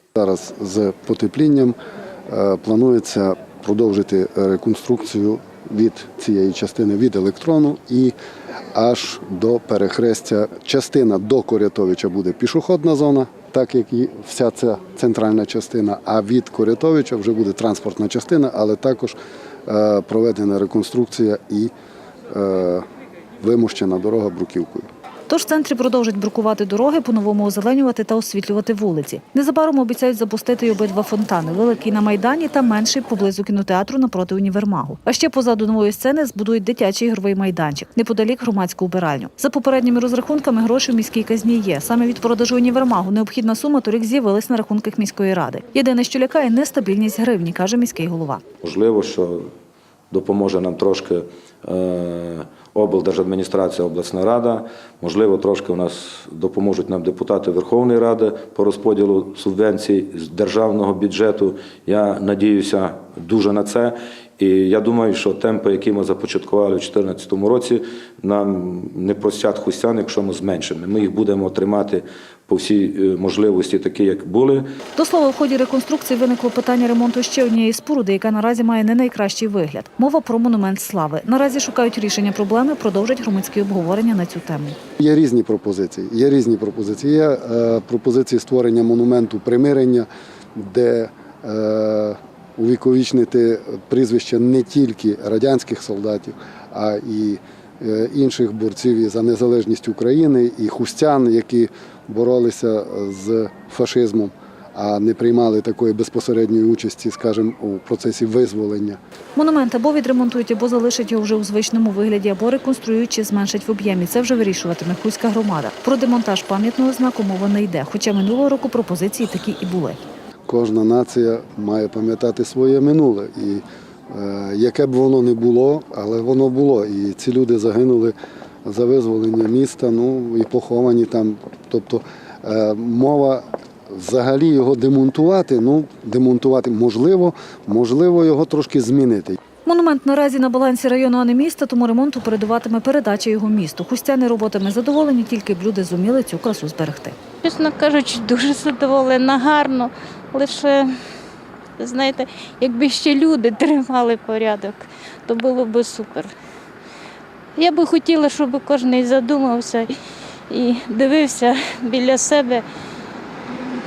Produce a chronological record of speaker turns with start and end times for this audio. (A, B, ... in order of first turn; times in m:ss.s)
0:00.2-0:01.8 A
0:02.3-0:08.2 A
0:08.7-0:21.7 A
0:22.3-0:22.8 A
0:23.4-0:24.9 A
0:25.3-0:48.4 B
0:48.6-0:49.4 C
0:50.1-1:14.7 C
1:15.0-1:24.8 B
1:25.0-1:49.0 A
1:49.4-2:00.0 B
2:00.5-2:08.1 A
2:08.6-2:19.4 A
2:19.6-2:27.2 B
2:27.4-2:30.9 D
2:31.8-2:36.3 D
2:37.6-2:39.9 D
2:40.5-2:42.6 D